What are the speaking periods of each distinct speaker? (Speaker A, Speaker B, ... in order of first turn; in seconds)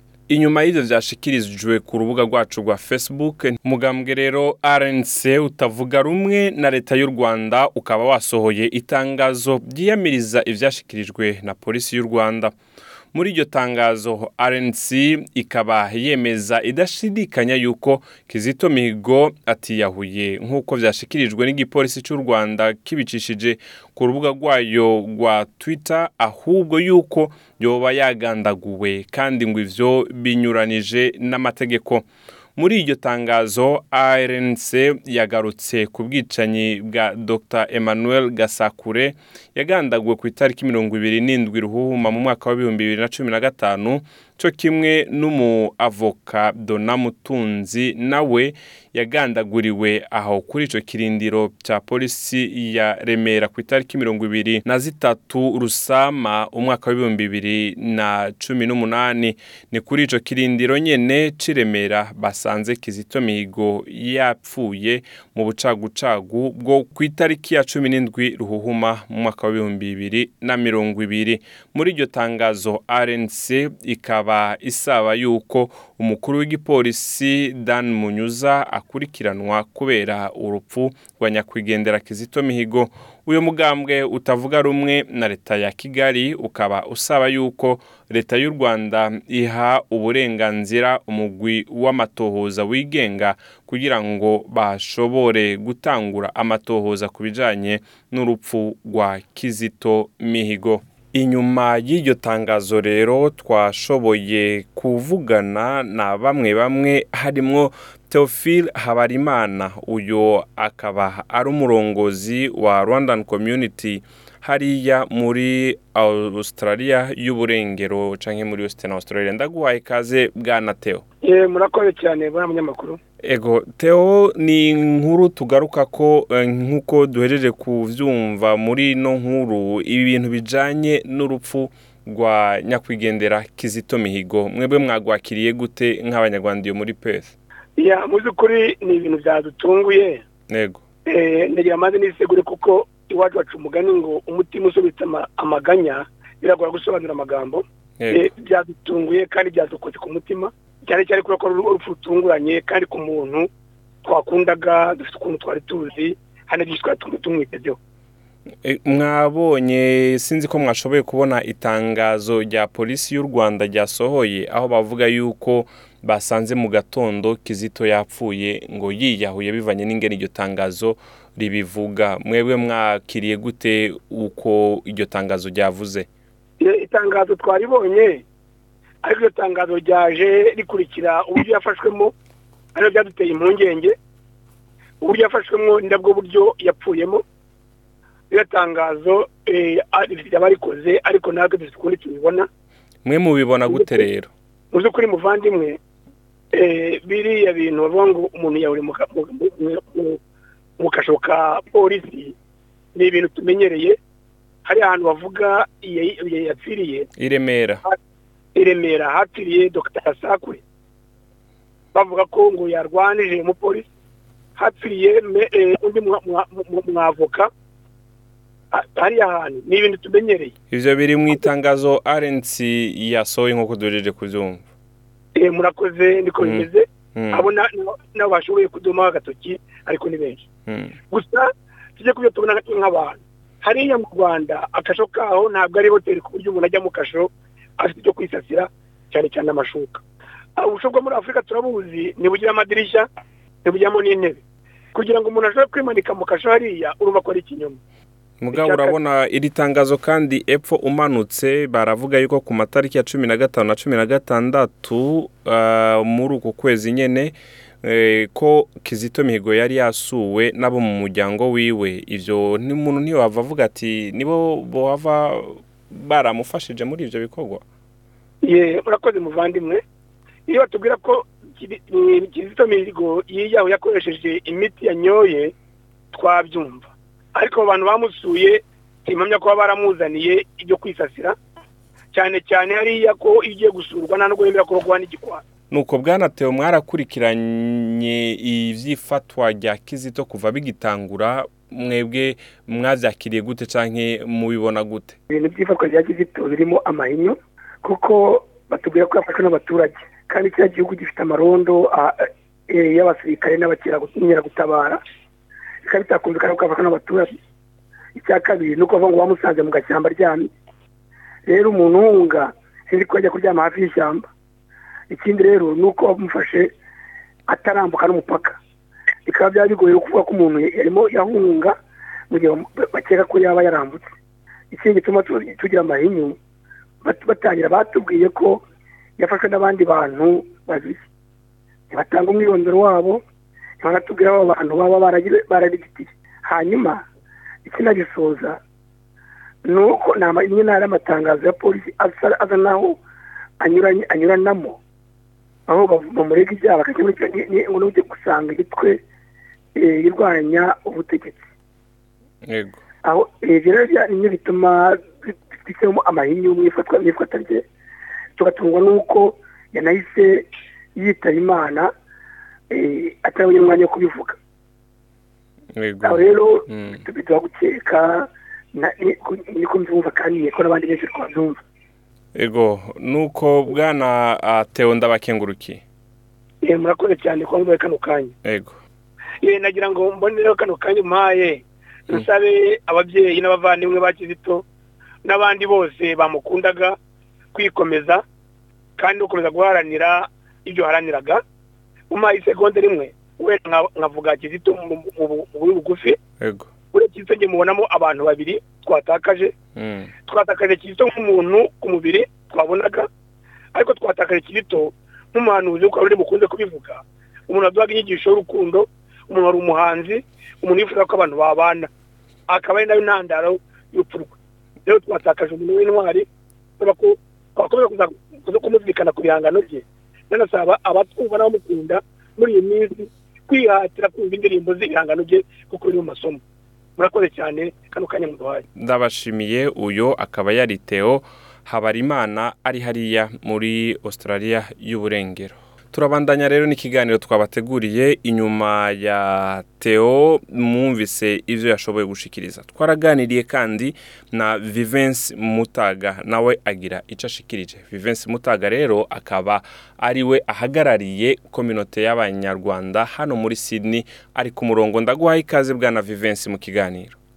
Speaker A: 0.3-12.5, 13.1-32.0, 32.6-121.0, 123.2-137.3, 140.5-140.8, 148.0-148.3, 158.6-176.1, 193.0-194.3, 207.2-207.8, 220.7-224.6, 226.4-227.5, 230.7-230.9, 248.4-267.6, 285.7-295.1, 352.5-352.8, 365.8-367.0, 372.3-375.8, 378.4-378.8, 396.4-396.7, 399.8-400.1, 428.8-457.2
Speaker B: 121.2-123.0, 137.8-140.2, 141.1-153.5, 154.0-157.8, 176.6-178.2, 179.0-182.1, 182.7-183.9, 185.0-187.2, 188.3-192.5, 193.7-194.0, 194.7-195.8, 196.5-200.2, 200.8-202.3, 202.9-204.0, 204.6-207.1, 208.5-210.6, 211.9-213.9, 214.6-217.5, 218.7-220.5, 225.3-230.4, 231.1-240.0, 240.6-243.1, 243.6-244.4, 244.9-247.8, 248.5-248.9, 268.4-269.8, 270.5-275.5, 276.1-281.4, 282.1-285.4, 295.3-305.0, 305.8-307.4, 308.1-310.5, 311.4-314.3, 315.1-316.7, 317.5-318.6, 319.2-321.7, 322.3-324.1, 324.7-326.4, 327.0-328.6, 329.2-331.0, 331.9-333.2, 333.8-337.0, 337.6-338.6, 339.6-343.0, 343.6-344.8, 345.7-349.0, 349.8-351.4, 353.0-357.6, 358.4-361.9, 362.7-364.4, 366.0-371.6, 376.6-378.3, 379.4-384.6, 385.2-387.0, 387.5-388.2, 389.0-391.4, 392.1-396.2, 396.9-399.5, 400.3-403.1, 403.7-411.9, 412.5-414.3, 414.9-416.2, 416.8-426.4, 427.0-428.6